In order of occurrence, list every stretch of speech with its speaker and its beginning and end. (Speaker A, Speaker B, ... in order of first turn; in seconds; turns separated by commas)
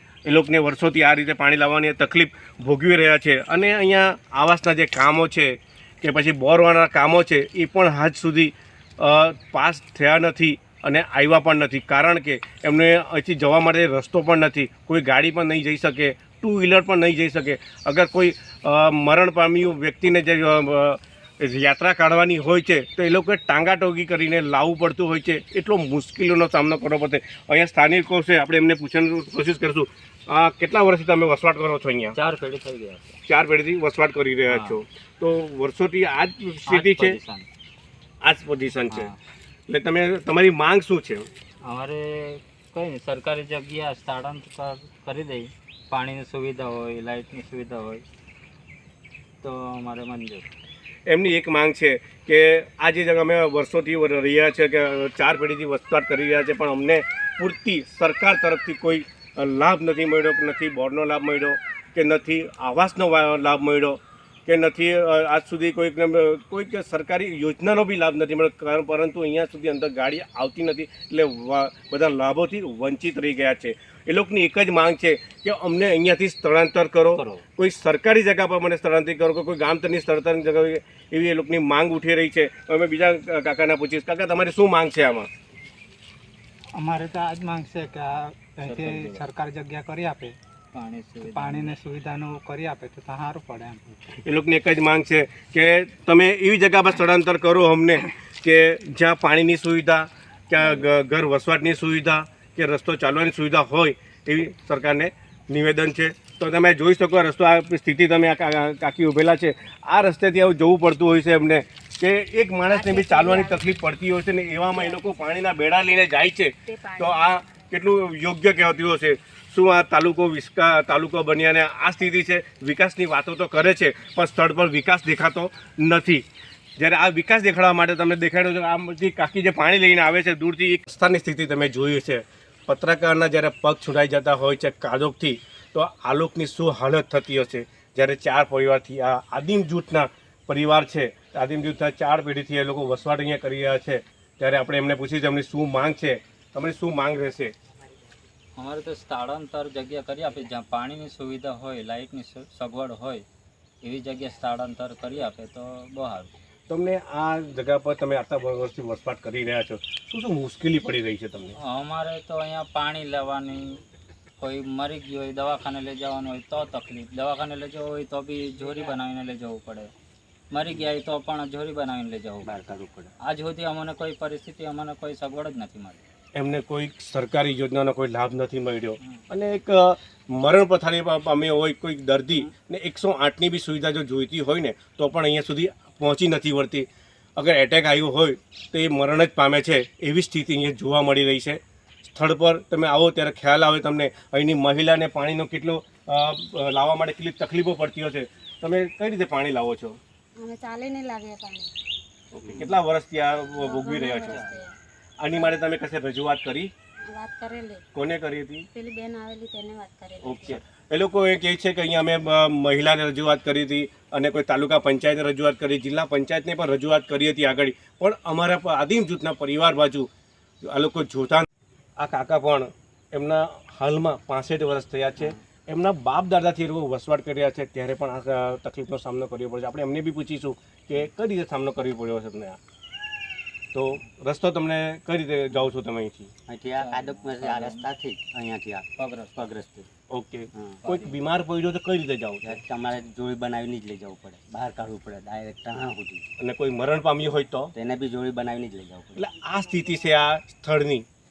Speaker A: 0.2-32.2, Speaker B: 32.1-33.2, Speaker A: 33.3-37.2, Speaker B: 34.5-34.7, Speaker B: 36.7-37.5, Speaker A: 38.2-39.1, Speaker B: 38.9-39.1, Speaker A: 39.7-41.3, Speaker B: 41.6-48.0, Speaker B: 49.4-50.5, Speaker A: 51.1-85.3, Speaker B: 77.1-77.4, Speaker C: 86.8-90.4, Speaker B: 88.6-89.2, Speaker B: 90.7-91.8, Speaker C: 91.2-93.8, Speaker A: 94.2-126.2, Speaker D: 112.7-113.6, Speaker D: 114.7-115.0, Speaker D: 116.7-117.3, Speaker A: 126.8-147.5, Speaker B: 148.6-153.2, Speaker B: 153.8-156.3, Speaker A: 156.7-161.6, Speaker B: 161.6-163.8, Speaker B: 164.4-169.9, Speaker B: 170.5-172.5, Speaker D: 172.4-173.1, Speaker B: 173.2-176.0, Speaker A: 176.3-200.0, Speaker D: 200.5-201.5, Speaker E: 200.6-201.6, Speaker A: 202.3-204.6, Speaker D: 203.6-204.7, Speaker B: 204.1-204.6, Speaker A: 205.2-206.7, Speaker D: 207.2-207.8, Speaker A: 207.9-208.7, Speaker E: 209.0-210.2, Speaker A: 210.2-220.1, Speaker D: 210.3-210.6, Speaker A: 220.6-221.4, Speaker A: 222.0-232.6, Speaker A: 233.7-236.3, Speaker D: 236.5-239.9, Speaker B: 236.8-237.9, Speaker B: 238.9-239.5, Speaker A: 240.1-242.6, Speaker D: 240.5-240.8, Speaker B: 240.8-241.2, Speaker D: 242.4-246.2, Speaker A: 246.4-247.7, Speaker D: 247.7-249.4, Speaker A: 249.1-251.1